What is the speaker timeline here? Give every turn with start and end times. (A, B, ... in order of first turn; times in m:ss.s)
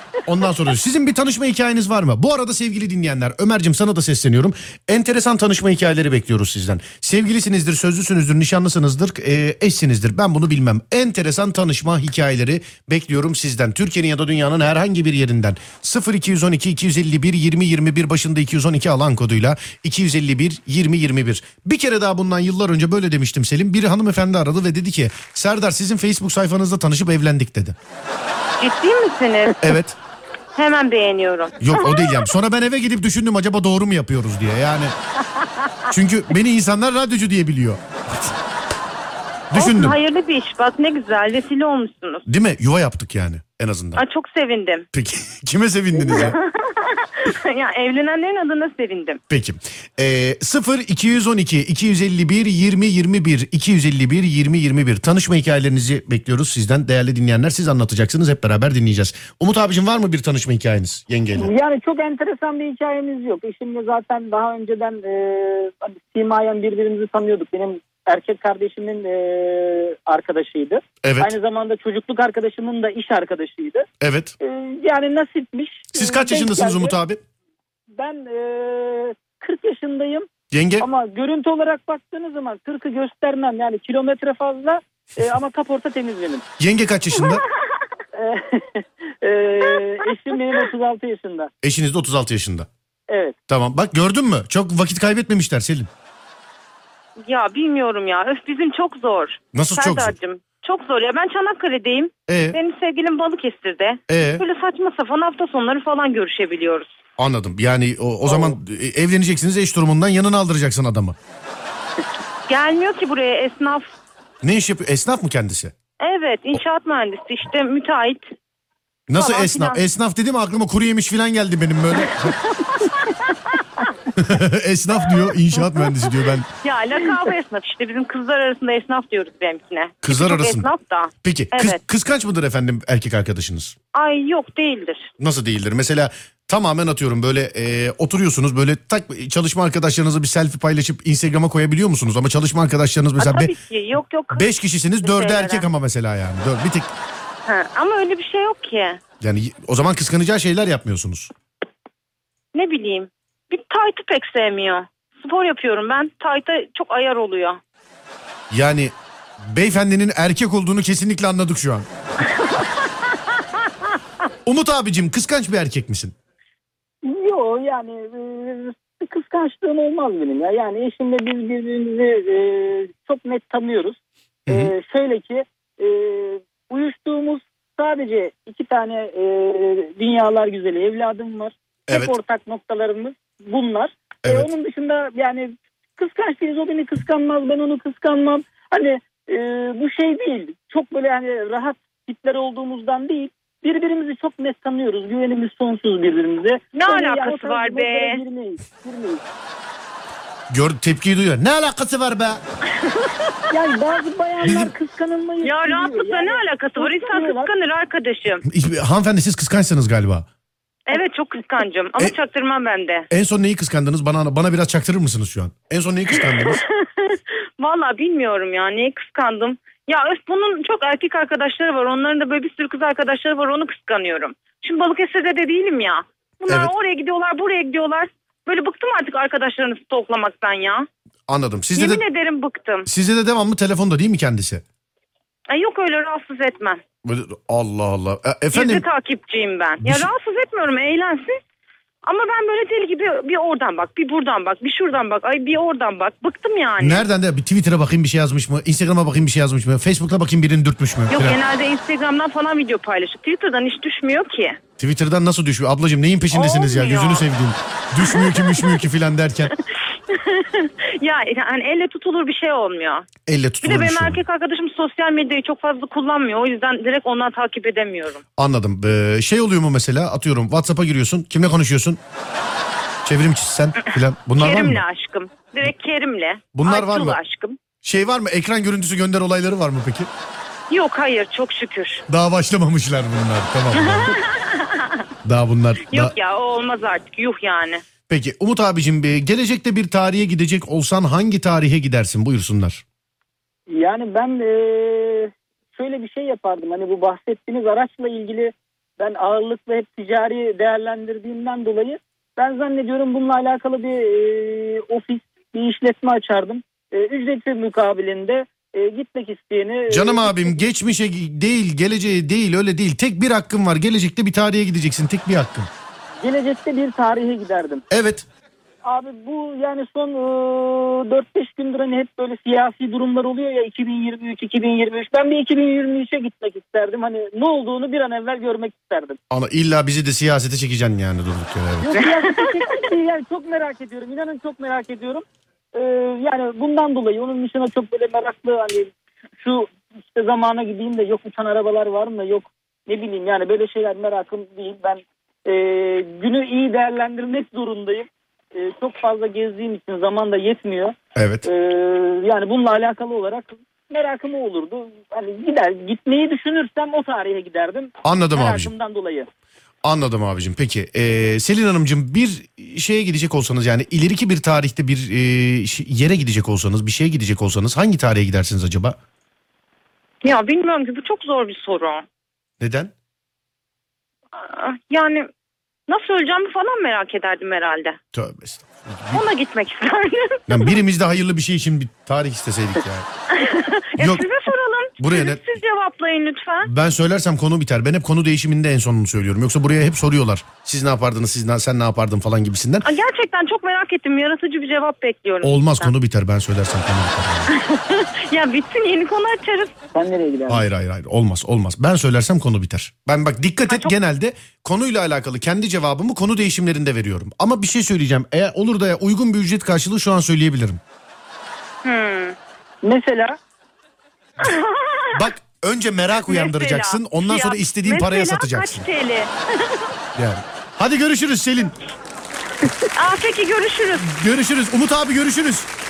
0:00.2-0:27.8 A
0:28.6-0:29.6 B
0:29.6-0:30.0 A
0:30.6-0:32.3 B
0:31.6-0:34.9 A
0:35.9-0:38.3 A
0:39.5-0:40.0 A
0:39.5-0:42.2 B
0:42.3-0:44.0 A
0:43.9-0:44.8 B
0:44.9-0:46.4 A
0:46.0-0:49.2 B
0:46.1-0:46.3 C
0:49.3-1:01.5 A
1:01.3-1:13.8 C
1:11.0-1:11.3 A
1:14.0-1:14.3 A
1:14.4-1:17.0 C
1:15.9-1:17.2 A
1:18.0-1:20.2 C
1:20.5-1:20.8 A
1:20.8-1:26.4 C
1:26.6-1:27.4 A
1:27.2-1:27.4 B
1:28.1-1:31.5 C
1:31.6-1:32.7 A
1:33.1-1:33.4 C
1:33.5-1:35.9 A
1:37.2-1:46.9 B
1:39.5-1:40.1 A
1:42.3-1:42.6 A
1:44.1-1:44.4 A
1:47.2-1:51.2 A
1:52.5-1:53.9 B
1:54.4-1:55.7 A
1:56.0-1:58.3 B
1:59.1-2:02.4 A
1:59.1-1:59.8 B
2:02.0-2:03.9 B
2:04.1-2:06.5 A
2:05.0-2:06.1 B
2:06.6-2:11.8 B
2:10.0-2:10.7 A
2:11.2-2:13.7 A
2:13.9-2:15.1 B
2:15.2-2:23.5 A
2:23.2-2:24.5 B
2:24.3-2:26.9 A
2:25.0-2:25.6 B
2:27.4-2:29.0 B
2:29.2-2:31.3 A
2:32.5-2:37.6 B
2:38.5-2:41.9 A
2:44.4-2:46.1 A
2:47.0-3:19.2 C
2:54.5-2:54.7 A
3:01.9-3:02.1 A
3:16.7-3:18.2 B
3:20.5-3:22.4 A
3:22.9-3:23.3 B
3:23.5-3:27.5 C
3:24.4-3:24.7 A
3:25.4-3:28.4 B
3:28.5-3:30.3 A
3:30.9-3:33.1 B
3:33.1-3:36.6 A
3:36.1-3:50.8 B
3:51.3-3:52.0 A
3:51.7-3:52.9 B
3:52.8-3:54.6 A
3:55.5-3:56.8 B
3:57.0-3:58.8 A
3:58.5-4:01.3 B
3:59.8-4:00.1 A
4:02.0-4:07.1 B
4:06.8-4:11.4 A
4:11.1-4:14.6 B
4:14.8-4:19.5 A
4:16.3-4:17.2 B
4:18.0-4:18.8 B
4:19.8-4:23.1 B
4:23.2-4:24.2 A
4:23.6-4:28.2 B
4:28.4-4:32.0 A
4:33.0-4:34.8 A
4:33.9-4:37.6 B
4:36.5-4:37.2 A
4:37.8-4:40.1 A
4:40.7-4:42.0 B
4:42.1-4:44.1 A
4:43.7-4:45.0 B
4:45.2-4:46.1 A
4:45.9-4:47.8 B
4:48.1-4:52.8 A
4:53.7-5:10.6 C
5:09.9-5:15.7 A
5:16.2-5:17.8 C
5:17.9-5:18.2 A
5:18.8-5:29.2 C
5:29.3-5:32.0 A
5:31.8-5:59.3 C
5:32.0-5:32.4 B
5:51.2-5:51.5 A
5:58.0-5:58.7 A
5:59.8-6:09.0 A
6:10.2-6:12.0 B
6:12.6-6:12.9 A
6:14.4-6:15.3 B
6:15.9-6:18.0 B
6:18.1-6:19.2 A
6:19.1-6:20.8 B
6:20.5-6:23.1 A
6:23.3-6:26.7 B
6:24.0-6:24.2 A
6:25.0-6:25.4 A
6:26.6-6:32.8 A
6:32.8-6:35.9 B
6:35.4-6:37.5 A
6:37.5-6:39.7 B
6:39.9-6:40.6 C
6:40.5-6:50.8 A
6:43.7-6:43.9 B
6:51.8-6:52.4 B
6:52.8-6:53.4 C
6:54.4-6:55.3 B
6:55.1-6:58.8 A
6:56.2-6:59.9 B
7:00.2-7:01.7 A
7:02.9-7:04.1 B
7:03.9-7:05.7 A